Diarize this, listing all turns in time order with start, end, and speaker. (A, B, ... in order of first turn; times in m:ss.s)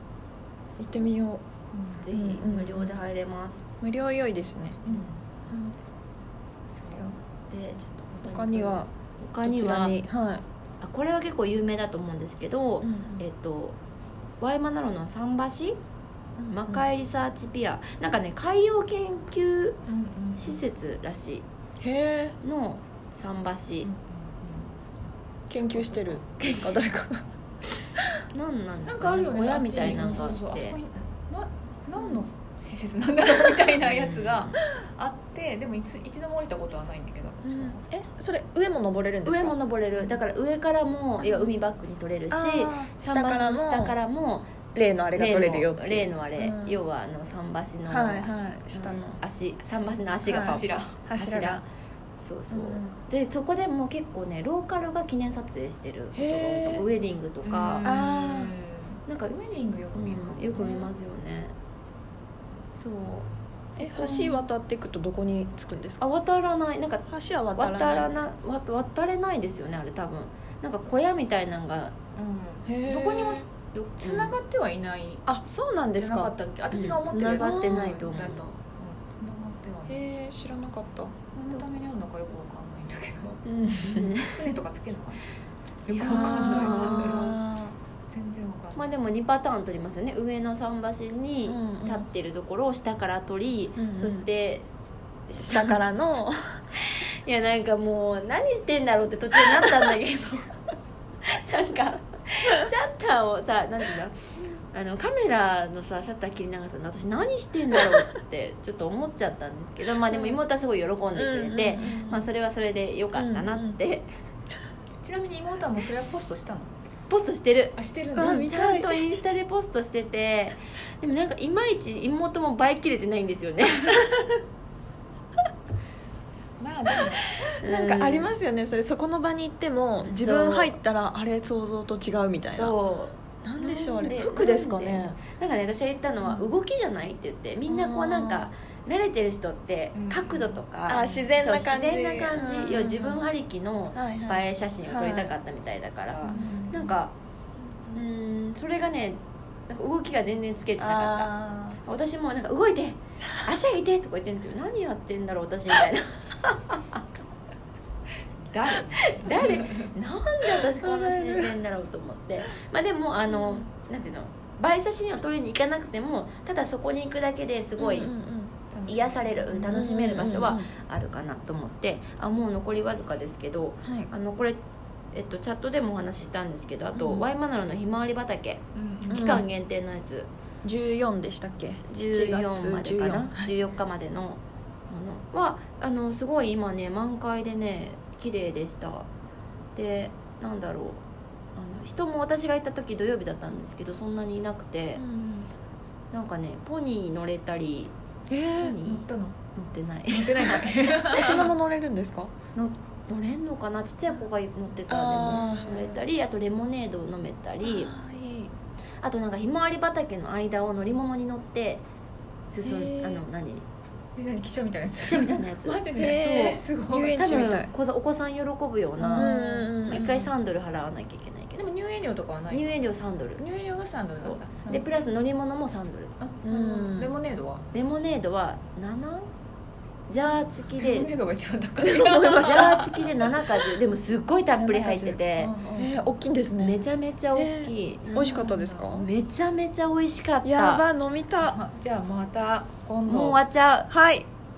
0:00.8-0:01.4 A
0:01.7-0:02.0 B
0:02.0-0:03.6 C
0:02.1-0:02.9 A
0:03.8-0:04.8 A
0:04.8-0:05.7 B
0:06.7-0:10.0 C
0:08.2-0:08.9 A
0:09.4-0:10.4 A
0:10.8-0:13.8 C
0:12.8-0:13.2 A
0:14.4-0:15.8 C
0:16.4-0:16.8 A
0:16.5-0:19.8 C
0:19.9-0:20.6 B
0:20.4-0:21.4 C
0:21.8-0:22.4 A
0:22.4-0:23.9 C
0:23.8-0:24.7 B
0:25.5-0:27.2 A
0:25.9-0:26.6 C
0:28.3-0:30.8 C
0:28.9-0:37.8 B
0:33.8-0:34.5 C
0:37.4-0:39.6 A
0:39.2-0:44.5 C
0:41.2-0:41.5 A
0:42.3-0:44.0 A
0:44.7-0:46.8 A
0:45.1-0:51.6 C
0:47.9-0:49.2 A
0:50.2-0:51.0 B
0:50.3-0:51.6 A
0:52.2-0:57.9 C
0:52.5-0:52.9 A
0:56.1-0:56.8 A
0:57.4-1:00.9 B
0:57.8-0:58.5 A
0:59.9-1:01.5 C
1:02.8-1:03.3 C
1:03.8-1:06.0 A
1:03.8-1:04.5 B
1:06.0-1:11.9 C
1:07.1-1:08.3 A
1:12.2-1:15.2 B
1:12.6-1:13.4 A
1:13.7-1:14.3 C
1:15.2-1:18.0 A
1:16.0-1:20.1 B
1:16.8-1:18.5 C
1:19.9-1:21.2 A
1:21.3-1:23.4 B
1:23.4-1:24.1 A
1:23.8-1:24.4 C
1:24.3-1:25.2 B
1:25.8-1:27.4 B
1:25.9-1:27.4 C
1:26.0-1:27.8 A
1:28.1-1:28.9 B
1:28.8-1:34.7 C
1:31.4-1:32.0 A
1:33.8-1:34.2 A
1:35.3-1:35.8 C
1:35.4-1:36.6 A
1:36.8-1:40.6 C
1:41.2-1:44.2 C
1:44.7-1:54.1 C
1:50.1-1:50.4 A
1:51.1-1:52.3 A
1:53.1-1:53.8 A
1:55.0-1:56.7 B
1:57.1-2:04.4 C
1:57.8-1:58.5 B
1:58.1-1:59.0 A
2:06.6-2:07.3 B
2:07.6-2:08.3 C
2:07.6-2:12.8 A
2:10.0-2:10.8 C
2:12.5-2:27.1 C
2:13.4-2:15.2 A
2:16.2-2:16.5 B
2:17.7-2:18.5 A
2:19.9-2:21.3 B
2:20.9-2:23.1 A
2:22.8-2:23.2 B
2:23.9-2:25.3 A
2:26.2-2:26.6 A
2:26.3-2:27.0 B
2:27.9-2:37.0 C
2:30.8-2:31.8 A
2:38.5-2:39.8 B
2:38.6-2:48.1 C
2:40.7-2:41.5 A
2:43.3-2:43.6 A
2:47.8-2:48.5 A
2:48.7-2:49.8 B
2:48.9-2:54.6 C
2:49.7-2:50.7 A
2:53.8-2:54.1 A
2:55.1-3:00.3 C
2:56.9-2:57.3 A
2:58.7-2:59.4 B
2:59.1-2:59.4 A
3:00.6-3:03.5 A
3:01.8-3:09.1 C
3:09.7-3:11.0 C
3:11.5-3:15.0 C
3:15.0-3:15.5 A
3:16.1-3:17.9 C
3:18.3-3:18.7 A
3:18.6-3:19.0 C
3:18.8-3:19.4 B
3:19.5-3:20.6 C
3:20.1-3:21.5 B
3:21.1-3:22.3 A
3:22.5-3:27.9 C
3:24.9-3:25.9 A
3:25.4-3:25.8 B
3:27.6-3:28.5 A
3:29.0-3:31.8 C
3:32.5-3:33.6 C
3:32.6-3:33.2 A
3:34.2-3:37.3 B
3:35.0-3:39.3 C
3:35.9-3:37.7 A
3:39.0-3:40.3 B
3:39.1-3:40.1 A
3:39.8-3:41.6 C
3:41.6-3:42.7 B
3:42.5-3:43.4 C
3:43.4-3:45.0 B
3:44.2-3:46.1 C
3:46.2-3:47.6 B
3:46.4-3:47.1 A
3:47.7-3:49.2 C
3:50.1-3:51.1 C
3:50.8-3:53.1 B
3:51.8-3:55.5 C
3:52.3-3:52.8 A
3:54.6-3:55.2 A
3:55.4-3:56.0 B
3:55.8-3:56.8 A
3:56.6-4:00.8 C
3:57.3-3:59.1 A
3:58.1-3:58.9 B
4:00.4-4:01.6 A
4:01.4-4:03.4 B
4:03.0-4:03.9 C
4:03.9-4:04.3 A